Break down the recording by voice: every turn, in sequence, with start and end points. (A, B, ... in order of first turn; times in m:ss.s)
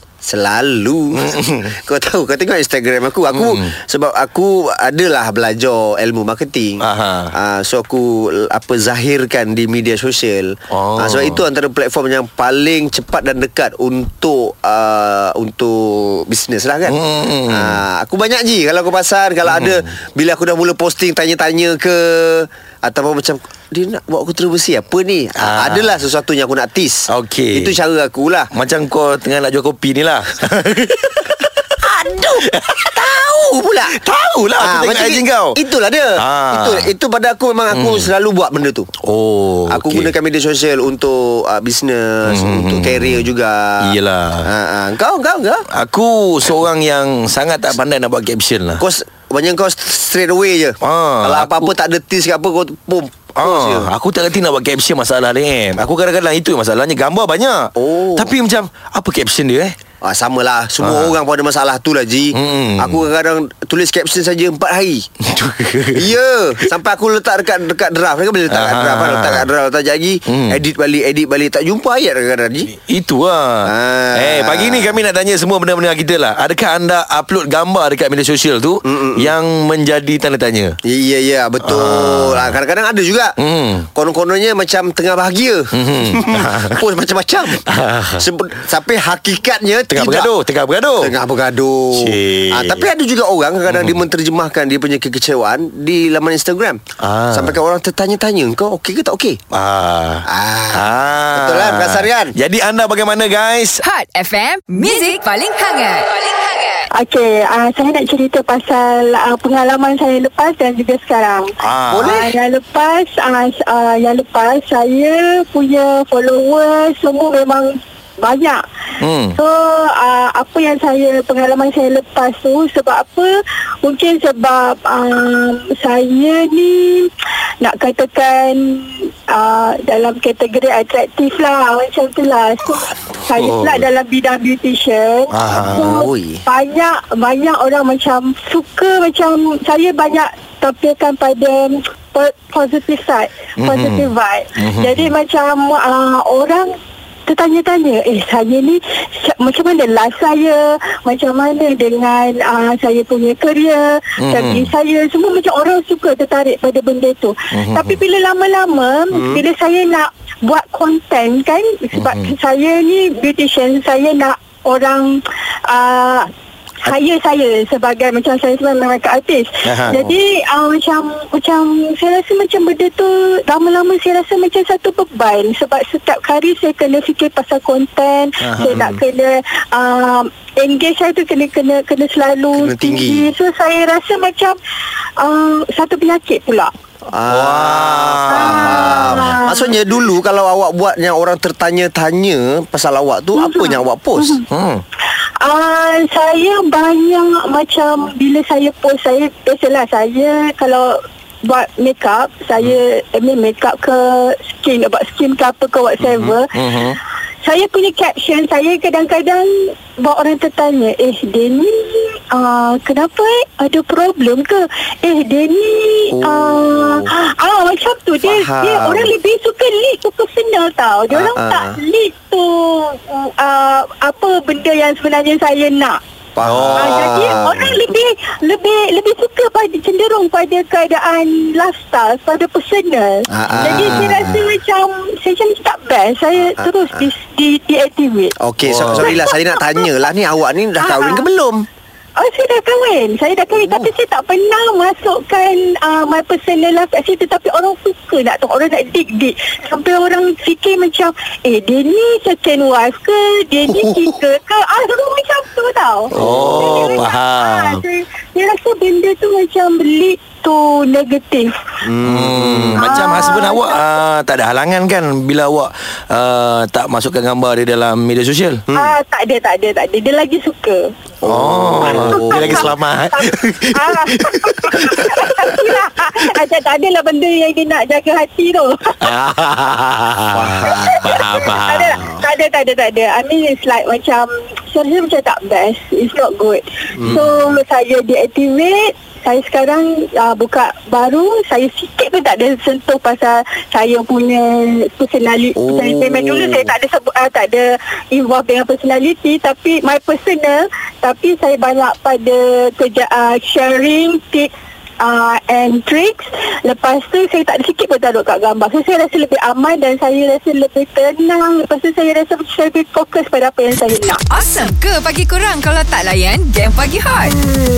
0:00.2-0:17.0 A
0:01.2-0:01.7 B
0:06.8-0:07.3 B
0:10.7-0:11.4 B
0:16.9-0:17.8 B
0:17.5-0:28.5 A
0:19.4-0:19.8 B
0:25.4-0:25.9 B
0:27.1-0:27.7 B
0:28.5-0:31.7 B
0:31.8-0:33.9 A
0:32.4-0:32.9 B
0:33.9-0:35.6 B
0:34.6-0:38.9 A
0:36.2-0:36.9 B
0:37.7-0:38.1 B
0:39.0-0:40.1 B
0:39.7-0:43.9 A
0:42.3-0:43.3 B
0:43.8-0:44.5 B
0:44.4-0:45.7 A
0:45.7-0:48.8 B
0:48.8-0:53.9 A
0:50.8-0:51.7 B
0:53.4-0:59.7 B
0:57.8-0:58.3 A
1:00.0-1:05.0 A
1:00.8-1:01.1 B
1:02.3-1:03.0 B
1:05.2-1:06.1 B
1:05.9-1:12.7 A
1:08.5-1:09.5 B
1:10.3-1:10.6 B
1:12.7-1:20.7 B
1:13.6-1:15.0 A
1:18.8-1:19.3 A
1:20.8-1:23.3 A
1:21.6-1:22.6 B
1:23.4-1:23.9 B
1:23.9-1:30.3 A
1:25.7-1:26.8 B
1:27.6-1:28.2 B
1:29.9-1:31.1 B
1:31.0-1:39.4 A
1:32.0-1:32.9 B
1:33.7-1:34.0 B
1:37.0-1:37.6 B
1:39.5-1:43.8 B
1:40.2-1:42.3 A
1:43.8-1:46.8 C
1:46.9-1:51.5 D
1:51.6-1:52.3 B
1:51.9-1:52.3 A
1:52.1-1:58.6 D
1:59.0-1:59.4 B
1:59.4-2:03.3 D
2:03.8-2:07.1 D
2:07.6-2:26.7 D
2:13.3-2:13.8 B
2:15.3-2:16.1 B
2:15.4-2:16.4 A
2:23.6-2:25.1 B
2:27.2-2:46.3 D
2:34.2-2:34.7 B
2:37.5-2:38.0 B
2:39.1-2:39.4 A
2:42.0-2:42.3 B
2:46.8-3:04.6 D
2:49.6-2:50.0 B
2:58.4-2:59.0 B
3:02.5-3:03.3 A
3:05.2-3:06.7 D
3:07.1-3:14.4 A
3:07.3-3:09.3 B
3:08.3-3:09.8 D
3:13.4-3:14.4 D
3:14.5-3:14.8 B
3:15.4-3:26.6 D
3:26.0-3:26.4 A
3:26.5-3:27.0 B
3:27.4-3:46.0 D
3:36.1-3:37.0 A
3:38.2-3:39.1 A
3:41.1-3:41.8 A
3:46.3-3:47.8 A
3:46.4-3:47.2 B
3:46.8-3:58.3 D
3:53.3-3:54.6 A
3:53.5-3:54.2 B
3:56.4-3:57.1 A
3:58.4-4:01.6 A
3:58.6-3:59.2 B
3:59.0-3:59.9 D
4:00.8-4:01.2 D
4:02.2-4:21.5 D
4:03.6-4:03.8 A
4:13.7-4:14.1 A
4:16.1-4:17.0 A
4:16.2-4:17.8 B
4:21.8-4:23.3 A
4:22.0-4:28.6 B
4:22.8-4:23.8 D
4:28.7-4:29.0 A
4:28.8-4:30.9 D
4:31.2-4:32.7 A
4:31.2-4:35.6 B
4:32.0-4:39.1 D
4:39.0-4:42.0 B
4:40.3-4:41.3 A
4:40.6-5:14.2 D
4:42.0-4:42.3 A
4:47.0-4:47.2 A
4:55.6-4:56.7 A
5:14.1-5:17.4 C